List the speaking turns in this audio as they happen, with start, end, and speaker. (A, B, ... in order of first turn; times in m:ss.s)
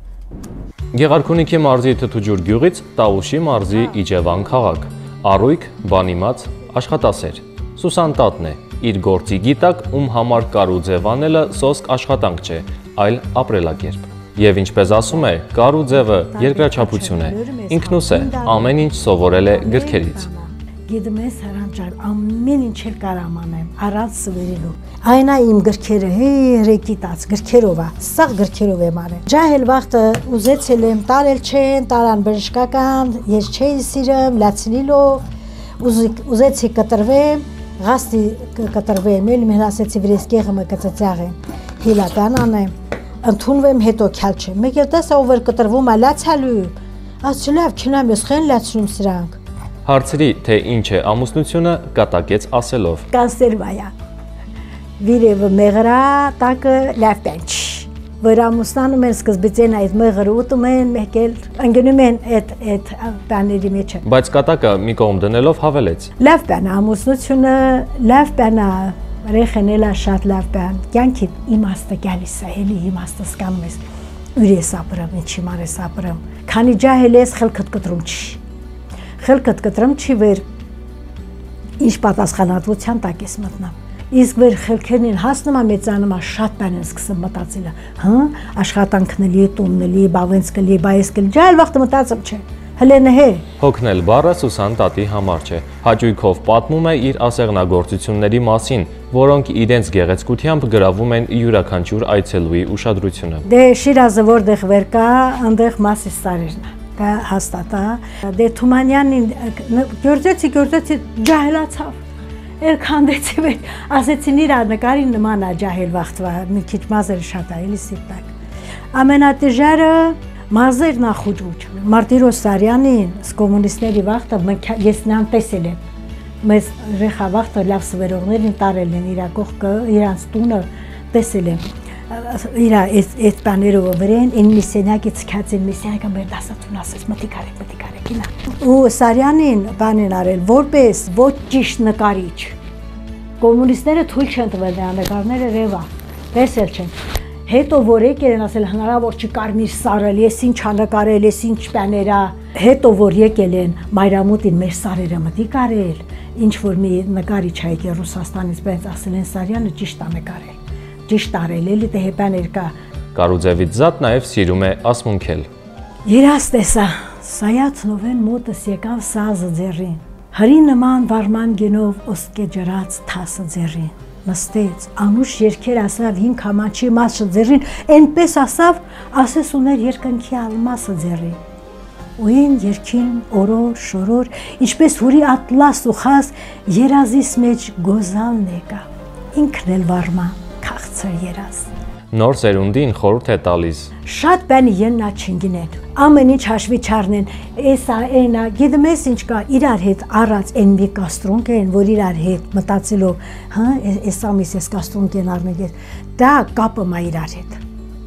0:00.9-0:20.3 A
0:16.2-0:35.2 B
0:35.8-0:49.4 B
0:49.9-0:53.1 A
0:53.1-0:53.9 B
0:55.0-1:04.0 B
1:04.0-1:06.1 A
1:06.2-1:13.8 B
1:14.4-1:18.4 B
1:19.2-1:20.4 B
1:21.8-1:33.4 B
1:33.6-1:43.5 A
1:43.5-1:52.0 B
1:52.6-1:58.3 B
1:58.9-2:05.8 B
2:06.4-2:22.6 B
2:23.4-2:27.0 B
2:27.5-2:40.6 B
2:41.1-2:42.7 B
2:43.2-2:45.5 A
2:46.1-3:01.4 B
3:02.2-3:11.7 B
3:12.1-3:13.9 A
3:14.1-3:27.6 B